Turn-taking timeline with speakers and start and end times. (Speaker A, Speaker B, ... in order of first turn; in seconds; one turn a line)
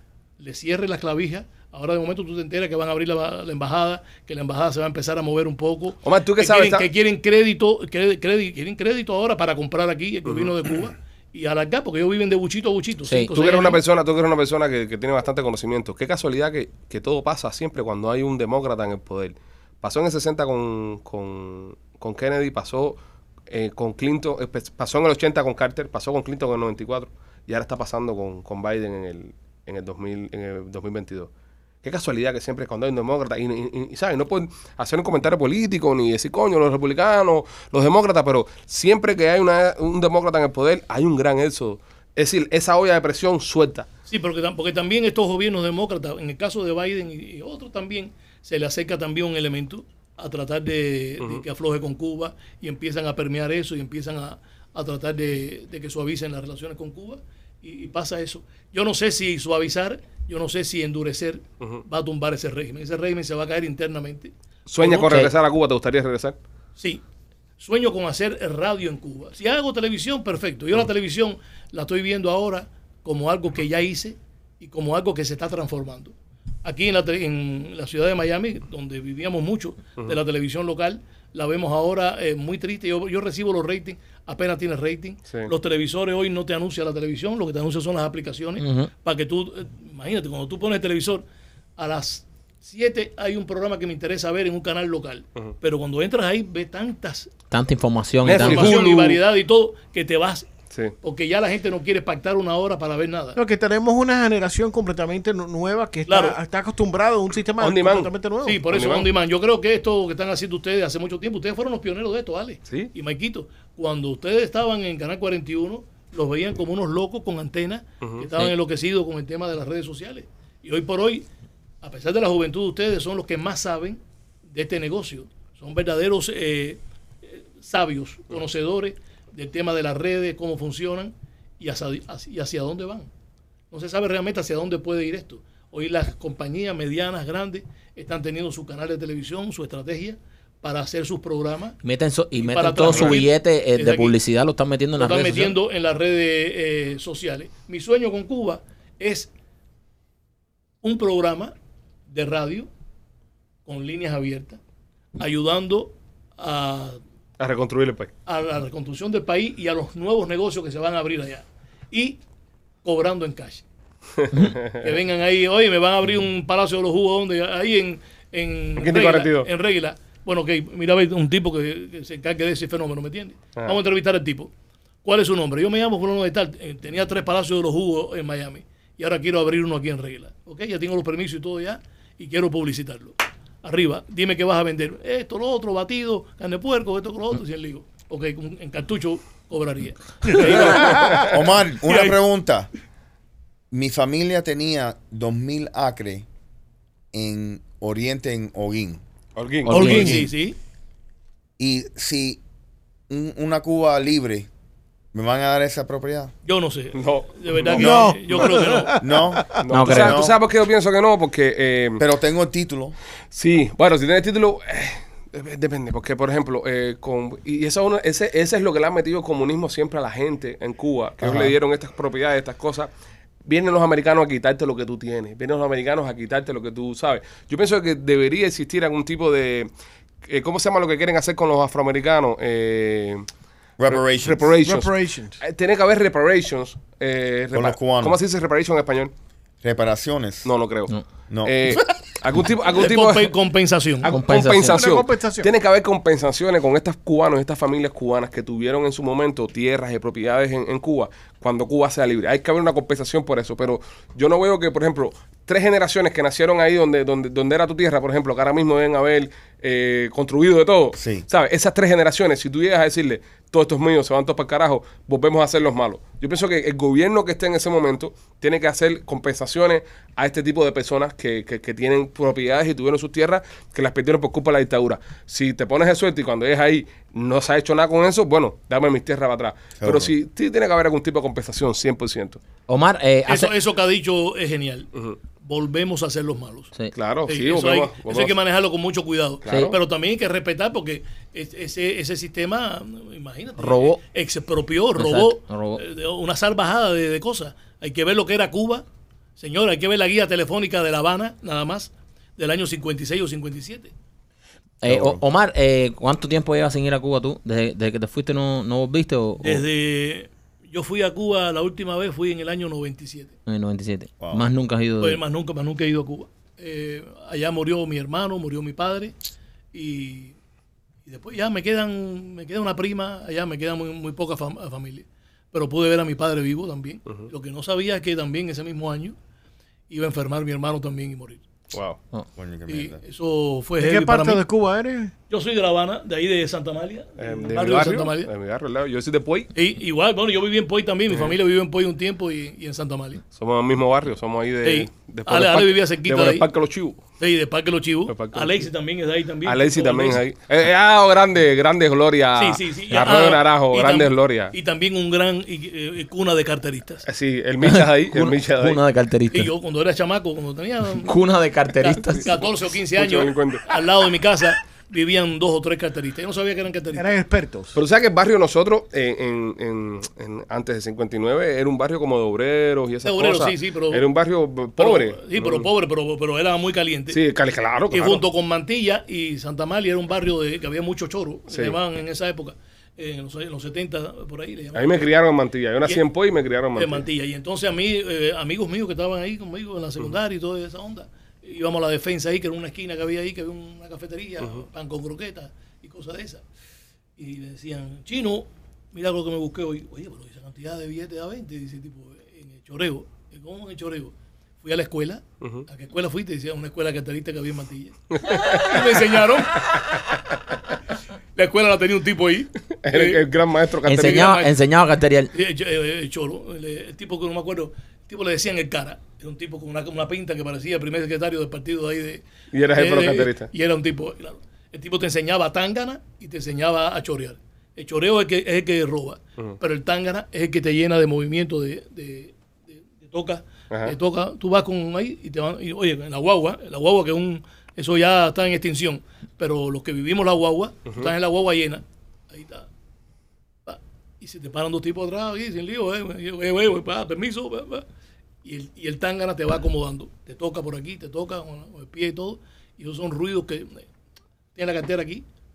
Speaker A: 0.4-13.8
Speaker B: 6.0-6.9
Speaker B: 10.3-10.5
Speaker C: 13.1-13.3
Speaker B: 13.3-31.3
Speaker B: 31.8-43.9
Speaker A: 44.1-64.3
Speaker B: 64.7-66.4
Speaker A: 64.8-65.2
Speaker C: 64.9-65.3
Speaker A: 67.6-76.1
Speaker A: 76.6-91.2
Speaker C: 88.6-88.9
Speaker A: 91.8-97.3
Speaker C: 97.5-98.8
Speaker B: 98.2-99.2
Speaker A: 98.3-100.5
Speaker A: 101.0-103.4
Speaker D: 103.3-108.7
Speaker A: 106.1-106.4
Speaker B: 107.6-108.1
Speaker A: 108.4-121.3
Speaker B: 108.7-109.1
Speaker B: 112.7-112.9
Speaker B: 118.0-118.3
Speaker A: 121.8-133.1
Speaker A: 133.7-141.8
Speaker C: 141.8-145.6
Speaker A: 142.4-144.1
Speaker B: 142.9-143.2
Speaker A: 145.0-149.3
Speaker A: 150.8-151.5
Speaker A: 152.1-152.7
Speaker A: 153.7-154.6
Speaker A: 155.2-157.0
Speaker B: 157.4-158.1
Speaker A: 158.3-162.2
Speaker A: 162.8-163.7
Speaker B: 164.2-164.9
Speaker A: 164.7-174.5
Speaker B: 168.8-169.5
Speaker A: 175.0-192.2
Speaker B: 190.4-191.4
Speaker E: 190.6-192.7
Speaker E: 193.7-196.3
Speaker E: 197.1-199.0
Speaker B: 199.3-200.2
Speaker C: 199.7-200.2
Speaker A: 199.7-200.6
Speaker E: 201.6-202.4
Speaker E: 203.1-204.5
Speaker E: 205.1-206.3
Speaker A: 206.4-208.9
Speaker B: 206.9-208.5
Speaker D: 207.7-209.6
Speaker E: 207.7-208.1
Speaker E: 209.0-210.4
Speaker B: 209.6-212.0
Speaker C: 209.7-210.2
Speaker E: 212.0-212.9
Speaker B: 213.3-222.9
Speaker E: 221.2-221.5
Speaker B: 223.4-229.7
Speaker B: 230.2-233.3
Speaker E: 233.8-234.5
Speaker B: 233.8-239.1
Speaker D: 234.6-235.4
Speaker E: 237.5-238.2
Speaker E: 239.6-240.5
Speaker B: 240.4-243.3
Speaker E: 241.3-241.6
Speaker A: 242.8-244.1
Speaker B: 244.0-282.4
Speaker C: 244.1-244.8
Speaker D: 244.6-245.5
Speaker E: 260.9-261.3
Speaker E: 279.8-280.1
Speaker C: 282.7-283.5
Speaker A: 283.3-286.7
Speaker B: 286.9-288.3
Speaker A: 287.3-298.9
Speaker B: 289.4-289.8
Speaker C: 289.5-289.7
Speaker C: 293.6-294.0
Speaker C: 294.9-295.8
Speaker A: 299.4-303.9
Speaker C: 304.8-309.6
Speaker E: 304.8-305.2
Speaker A: 309.4-313.4
Speaker C: 313.5-315.2
Speaker E: 314.2-314.5
Speaker A: 315.0-319.1
Speaker A: 319.7-320.4
Speaker A: 321.1-329.1
Speaker A: 329.9-331.4
Speaker B: 331.7-332.0
Speaker E: 332.4-333.0
Speaker A: 332.7-334.4
Speaker D: 333.8-335.1
Speaker A: 335.3-338.3
Speaker B: 337.2-339.5
Speaker A: 339.5-343.2
Speaker B: 343.3-347.0
Speaker A: 344.6-346.5
Speaker A: 347.2-350.2
Speaker B: 348.1-348.6
Speaker B: 349.4-354.5
Speaker A: 352.4-357.0
Speaker B: 357.1-358.8
Speaker C: 357.6-359.5
Speaker A: 359.3-361.2
Speaker C: 360.9-362.3
Speaker A: 361.8-367.1
Speaker B: 362.1-363.8
Speaker D: 366.9-367.8
Speaker B: 367.7-375.7
Speaker A: 373.0-374.0
Speaker A: 374.8-377.2
Speaker B: 377.1-378.2
Speaker A: 377.9-385.1
Speaker B: 381.5-381.8
Speaker B: 384.7-387.1
Speaker A: 386.8-396.4
Speaker A: 397.2-409.8
Speaker B: 408.1-408.9
Speaker A: 411.4-413.2
Speaker B: 412.8-414.4
Speaker C: 413.9-415.3
Speaker A: 414.0-414.5
Speaker A: 415.3-442.7
Speaker B: 422.5-423.5
Speaker B: 433.7-433.9
Speaker A: 443.7-447.9
Speaker A: 448.4-453.9
Speaker A: 454.6-455.3